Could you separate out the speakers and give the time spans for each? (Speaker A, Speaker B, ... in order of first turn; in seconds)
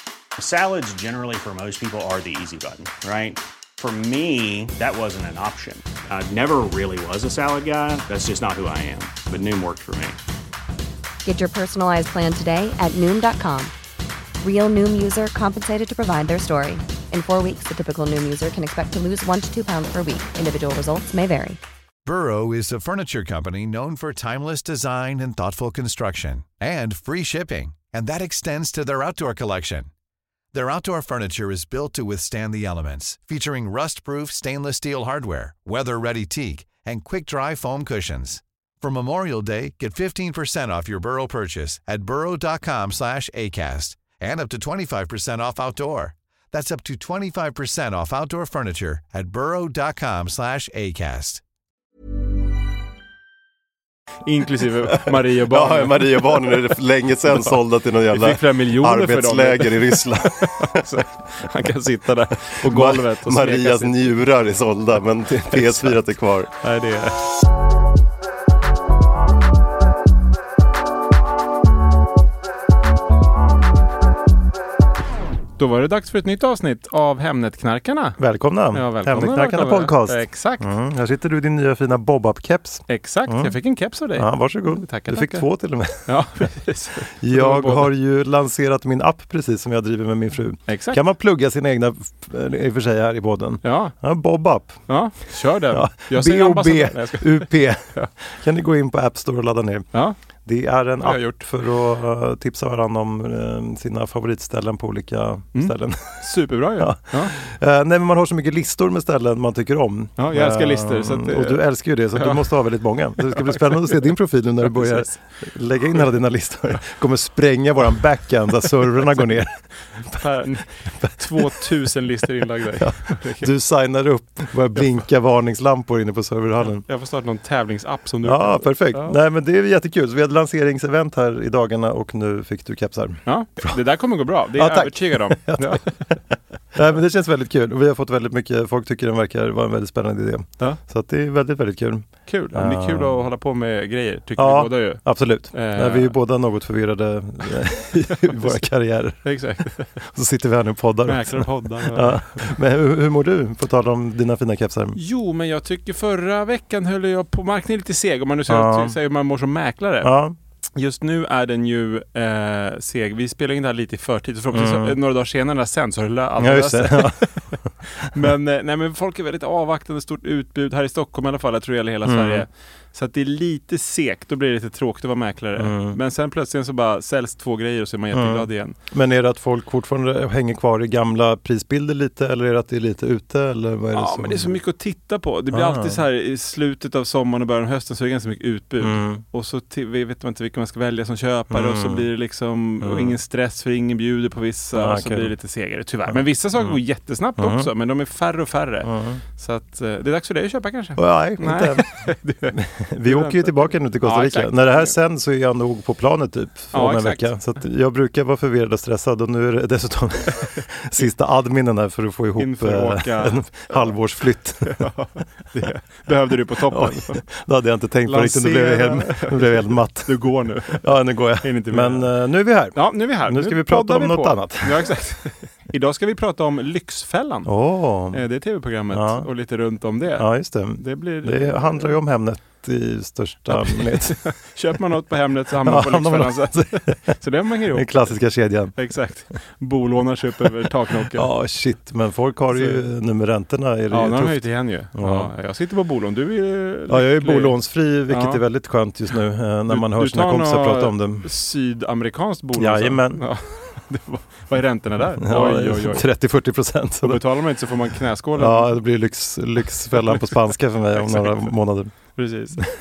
Speaker A: 0.4-10.2
Speaker B: 11.2-13.7, 14.4-21.6
Speaker C: 22.1-29.9, 30.5-51.4
Speaker D: 54.2-56.7, 58.1-64.2, 65.5-66.0, 66.6-67.1, 75.6-78.2, 78.7-80.7, 82.9-85.5, 86.1-87.9, 90.7-91.0, 93.6-93.9, 94.9-98.1, 101.0-101.4, 105.5-107.3, 110.2-111.6, 112.2-112.5, 113.2-114.1, 114.6-115.2, 120.1-123.5, 126.8-129.2, 133.3-135.9, 142.3-146.2, 148.1-148.7, 149.2-149.9, 151.1-152.4, 154.9-160.1, 160.8-167.5, 168.1-178.8, 183.9-204.9, 206.7-207.3, 212.4-213.9, 214.7-217.2, 218.1-220.8, 221.4-222.1, 222.7-227.5, 228.1-230.3, 230.8-232.0, 233.5-238.2, 238.8-241.3, 242.5-242.8, 243.9-247.6, 248.1-248.4, 249.7-256.0, 257.0-258.8, 259.9-260.3, 260.9-261.5, 262.2-262.6
Speaker E: 55.1-60.8, 62.6-66.5, 78.2-83.5, 84.2-86.0, 87.2-94.8, 95.7-99.9, 100.5-119.5, 121.0-121.5, 122.8-126.8, 128.2-133.8, 134.6-135.8, 136.7-143.2, 144.4-149.2, 150.1-155.0, 158.5-159.0, 160.0-160.3, 164.5-165.0, 166.4-167.7, 172.1-172.4, 175.6-176.0, 178.1-184.6, 185.5-186.0, 188.8-189.2, 191.5-192.1, 192.8-193.2, 194.7-195.3, 196.1-196.8, 197.4-197.7, 198.8-199.2, 201.0-202.0, 202.5-214.8, 216.7-220.2, 220.7-224.8, 227.5-228.2, 228.9-229.3, 230.2-234.1, 235.6-236.9, 237.7-238.8, 241.1-244.4, 244.9-245.3, 246.9-251.3, 252.6-253.2, 255.2-257.2, 258.4-261.9